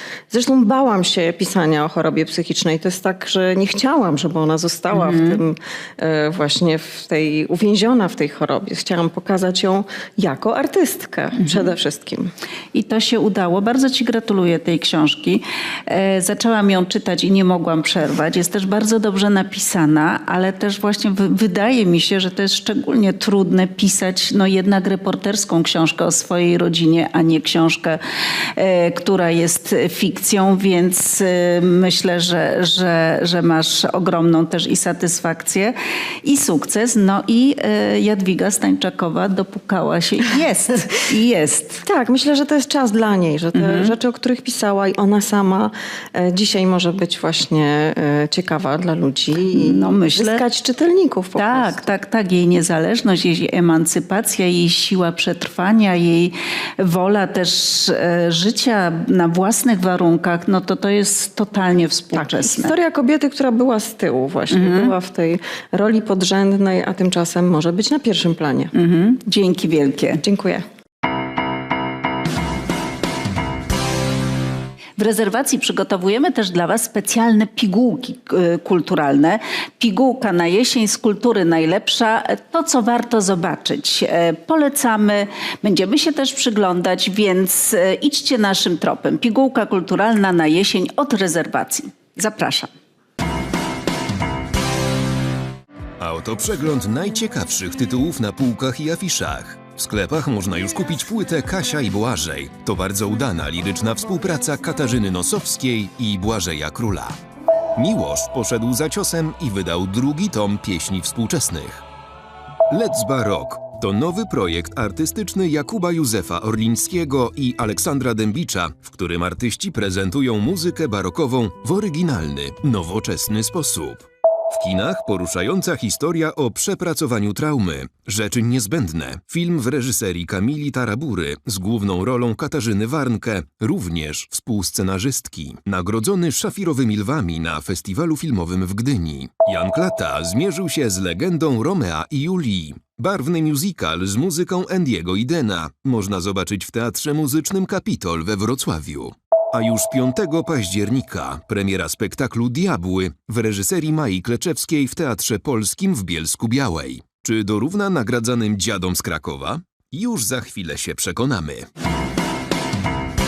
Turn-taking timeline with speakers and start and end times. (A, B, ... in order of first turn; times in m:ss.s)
0:00.3-0:12.3 A
0:04.9-0:05.4 B
0:12.7-0:28.0 B
0:28.6-0:41.8 B
0:41.8-0:51.8 A
0:43.5-0:43.9 B
0:49.6-0:50.4 B
0:51.4-1:02.7 B
1:02.2-1:08.7 A
1:04.5-1:04.9 B
1:08.7-1:10.2 B
1:10.2-1:10.6 A
1:15.0-1:32.7 B
1:36.0-1:47.2 C
1:47.8-1:51.8 C
1:52.7-2:41.7 C